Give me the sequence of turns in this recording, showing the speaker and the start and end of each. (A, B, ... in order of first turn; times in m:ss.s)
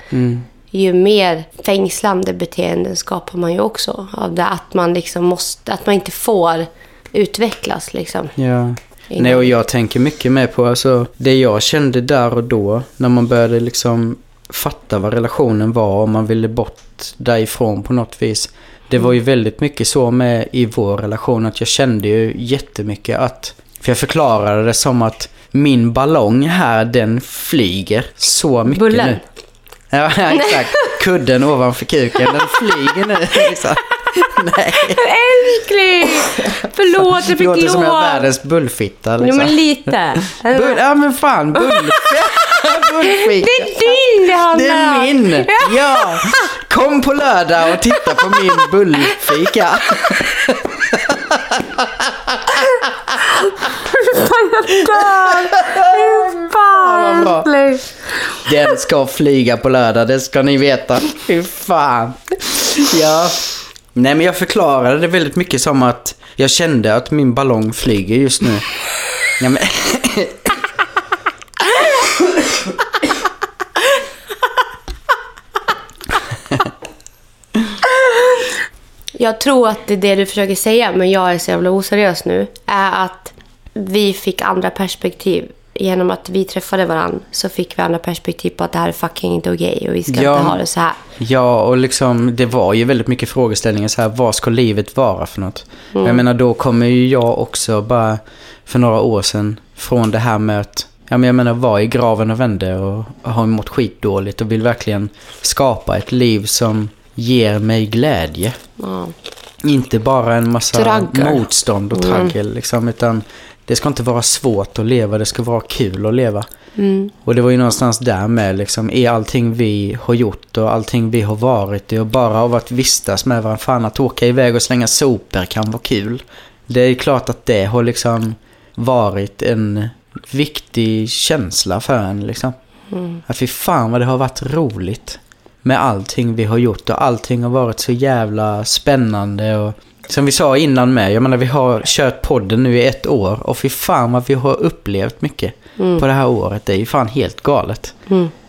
0:00.1-0:00.4 A
0:00.7-0:08.4 B
0:08.4-0:29.2 A
0:09.1-0:09.5 B
0:28.7-0:29.2 B
0:29.9-0:35.1 A
0:30.3-0:31.0 B
0:32.4-0:32.7 B
0:33.2-0:33.6 B
0:34.7-0:38.3 B
0:37.0-0:39.6 A
0:39.2-0:40.8 B
0:40.3-0:53.1 A
0:41.6-0:46.5 B
0:47.9-0:48.6 B
0:52.8-0:58.4 B
0:54.8-0:57.5 A
0:58.4-1:08.6 A
1:09.4-1:10.6 A
1:12.3-1:12.7 A
1:18.0-1:18.5 B
1:19.2-1:31.0 B
1:30.1-1:30.6 A
1:31.2-1:48.6 A
1:35.9-1:36.2 B
1:48.8-1:49.1 B
1:49.6-1:56.4 A
1:50.7-1:52.4 B
1:56.8-1:57.1 B
1:57.2-2:12.6 A
2:12.9-2:13.2 B
2:13.2-2:28.0 A
2:25.8-2:26.0 B